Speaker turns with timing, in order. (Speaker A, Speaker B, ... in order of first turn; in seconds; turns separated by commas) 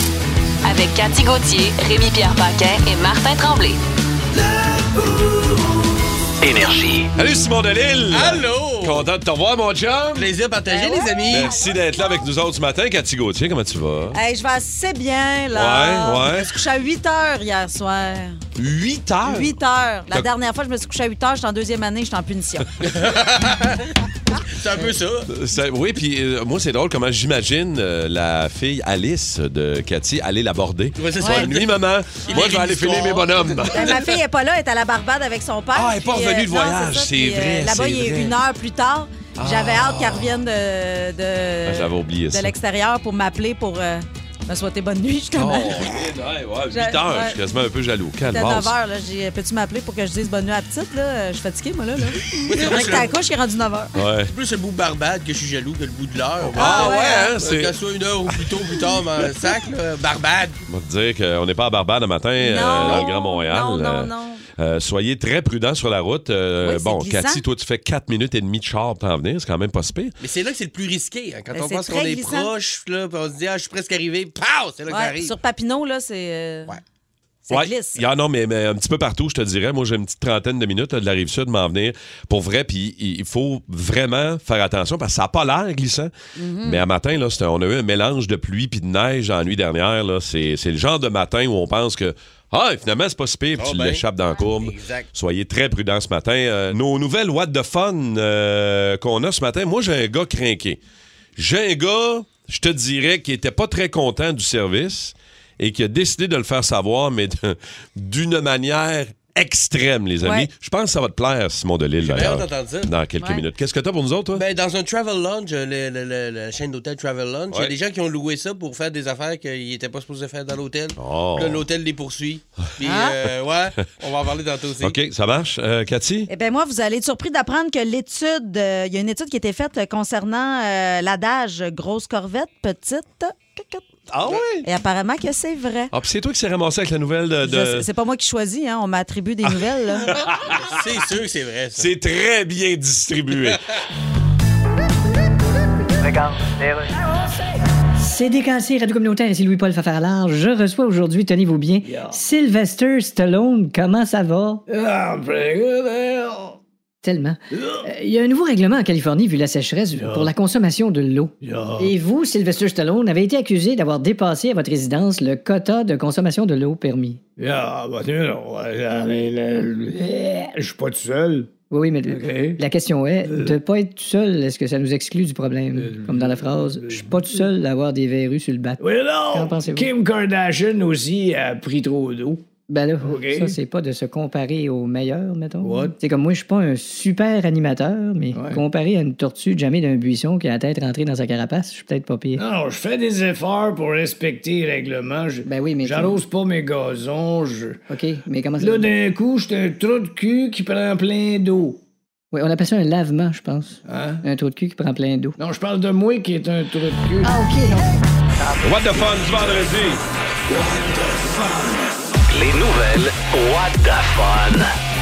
Speaker A: 0.6-3.8, Speaker B: 6.4-7.1, Speaker C: 7.2-10.3, Speaker D: 8.1-9.1, Speaker D: 10.1-11.5, Speaker E: 10.7-11.1, Speaker C: 11.3-14.2, Speaker E: 14.1-18.4, Speaker C: 15.5-16.5, Speaker C: 18.6-19.6, Speaker E: 19.2-22.8, Speaker D: 22.8-23.9, Speaker D: 24.5-25.3, Speaker C: 25.3-34.0, Speaker D: 31.0-33.9, Speaker E: 31.2-31.4, Speaker E: 33.7-45.9, Speaker C: 35.7-38.4, Speaker C: 39.4-40.4, Speaker C: 41.6-42.5, Speaker C: 45.3-48.7, Speaker E: 46.7-47.4, Speaker E: 48.2-53.9, Speaker D: 52.4-53.1, Speaker C: 54.0-54.3, Speaker D: 54.3-60.6, Speaker C: 56.4-57.8, Speaker E: 56.6-57.3, Speaker C: 58.3-58.5, Speaker C: 60.7-70.1, Speaker E: 62.4-64.4, Speaker D: 62.8-63.0, Speaker E: 66.6-67.4, Speaker D: 70.2-75.3, Speaker E: 71.5-72.5, Speaker E: 74.9-76.7, Speaker E: 77.5-78.0, Speaker C: 77.5-86.1, Speaker E: 86.4-86.8, Speaker C: 86.6-100.8, Speaker D: 93.6-95.1, Speaker C: 101.3-114.4, Speaker E: 110.2-110.5, Speaker D: 112.0-112.9, Speaker D: 114.3-125.0, Speaker C: 121.0-121.6, Speaker E: 122.8-123.1, Speaker C: 124.8-126.3, Speaker E: 126.3-133.8, Speaker C: 134.1-134.7, Speaker E: 134.6-135.9, Speaker C: 135.9-137.9, Speaker E: 137.4-140.1, Speaker C: 139.4-140.8, Speaker D: 140.5-141.9, Speaker C: 141.8-143.6, Speaker F: 146.0-146.6, Speaker G: 148.0-154.6, Speaker F: 151.8-152.2, Speaker F: 154.7-156.6, Speaker G: 157.0-167.2, Speaker F: 157.5-157.9, Speaker F: 160.0-160.3, Speaker F: 161.4-161.9, Speaker F: 167.4-171.5, Speaker G: 171.7-179.9, Speaker F: 172.1-172.6, Speaker F: 173.2-173.6, Speaker F: 175.7-177.5, Speaker F: 178.8-182.4, Speaker G: 182.7-192.4, Speaker F: 183.0-183.6, Speaker F: 185.6-186.0, Speaker F: 188.3-188.6, Speaker F: 192.4-197.8, Speaker G: 195.4-196.2, Speaker G: 197.9-198.9, Speaker F: 198.6-201.8, Speaker G: 202.3-205.4, Speaker F: 203.8-204.2, Speaker F: 205.4-207.6, Speaker G: 207.2-208.0, Speaker C: 208.6-210.0, Speaker F: 210.5-211.8, Speaker B: 212.3-214.7